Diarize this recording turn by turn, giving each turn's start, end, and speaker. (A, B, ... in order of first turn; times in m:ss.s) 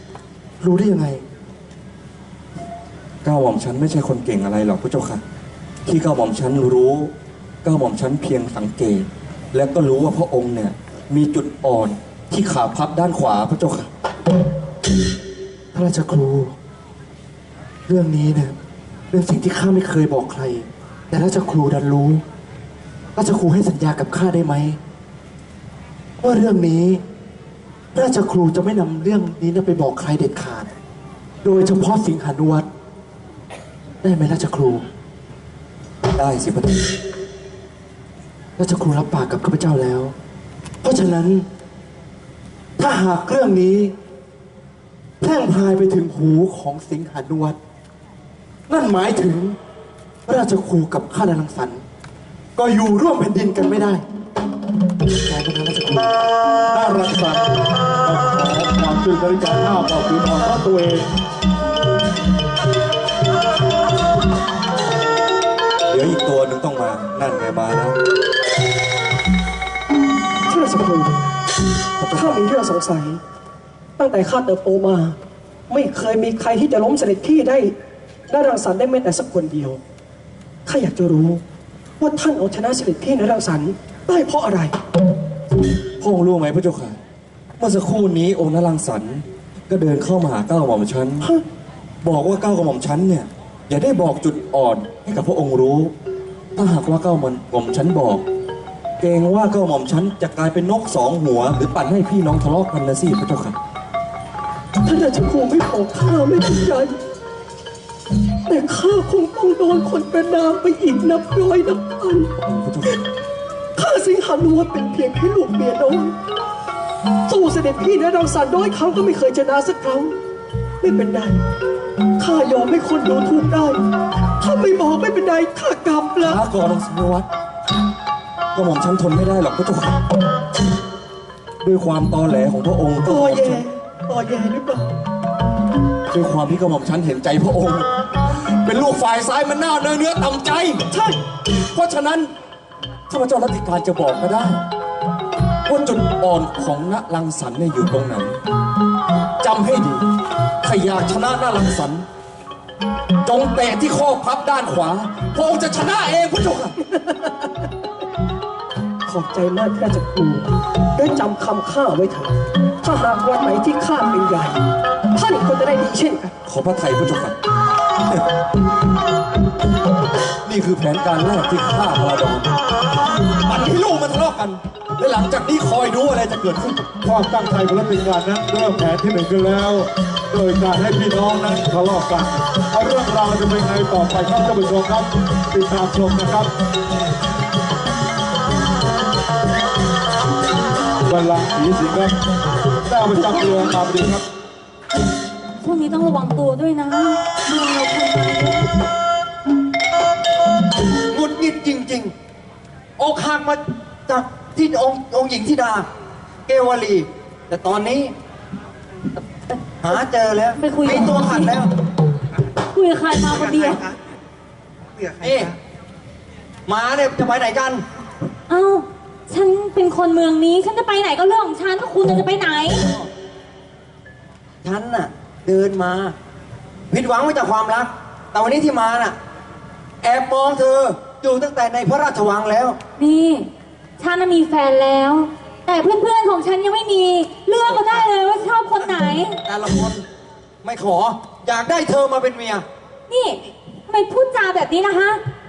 0:00.6-0:01.2 A
0:03.2-0:05.2 B
0:05.8-0:07.1 B
0:07.6-0:13.9 B
0:15.7-0:16.5 A
0:17.9-0:18.6 A
0:19.1-0:22.2 A
0:23.2-0:24.8 A
0:26.2-0:27.0 A
0:27.9-0:30.7 A
0:31.4-0:32.7 A
0:34.0-0:34.8 A
0:36.1-0:36.9 B
0:38.6-0:40.1 A
0:40.8-0:41.4 A
0:42.8-0:43.9 A
0:45.2-0:47.6 A
0:48.7-0:49.6 A
0:50.2-0:51.8 A
0:52.6-0:54.0 A
0:55.2-0:56.1 A
0:56.7-1:01.1 C
1:05.9-1:08.0 B
1:10.5-1:11.2 D
1:12.0-1:12.4 B
1:12.1-1:13.2 D
1:14.0-1:15.2 D
1:15.7-1:17.7 D
1:18.3-1:19.8 D
1:20.6-1:21.4 D
1:22.0-1:24.7 D
1:26.0-1:27.0 B
1:27.6-1:31.2 B
1:32.0-1:35.9 B
1:36.6-1:38.2 B
1:39.0-1:43.6 B
1:44.8-1:47.0 D
1:48.4-1:52.3 D
1:52.4-1:53.0 B
1:53.8-1:56.2 D
1:57.3-2:00.2 D
2:00.8-2:01.4 D
2:02.2-2:03.8 D
2:04.4-2:06.4 D
2:06.2-2:07.3 B
2:08.5-2:10.0 B
2:11.6-2:13.6 B
2:13.0-2:14.9 D
2:16.1-2:20.8 B
2:20.9-2:21.2 D
2:21.7-2:22.3 B
2:23.1-2:24.6 B
2:25.6-2:28.4 B
2:29.4-2:30.1 B
2:30.6-2:32.0 B
2:33.2-2:36.8 B
2:37.0-2:37.3 D
2:39.1-2:44.6 D
2:45.1-2:46.3 D
2:46.4-2:47.4 B
2:50.4-2:52.5 B
2:53.4-2:56.9 B
2:57.0-3:06.5 C
3:11.0-3:12.2 C
3:12.8-3:14.2 C
3:15.6-3:18.7 E
3:21.1-3:22.1 F
3:23.0-3:25.9 F
3:26.5-3:28.1 F
3:29.5-3:31.6 E
3:29.8-3:31.7 F
3:32.7-3:33.9 E
3:35.0-3:35.6 F
3:36.6-3:37.8 F
3:38.5-3:42.9 E
3:44.6-3:46.2 F
3:46.9-3:49.2 F
3:50.0-3:52.8 F
3:53.0-3:59.4 E
3:57.6-3:58.1 F
3:59.4-4:00.0 F
4:00.6-4:02.6 F
4:03.1-4:05.2 E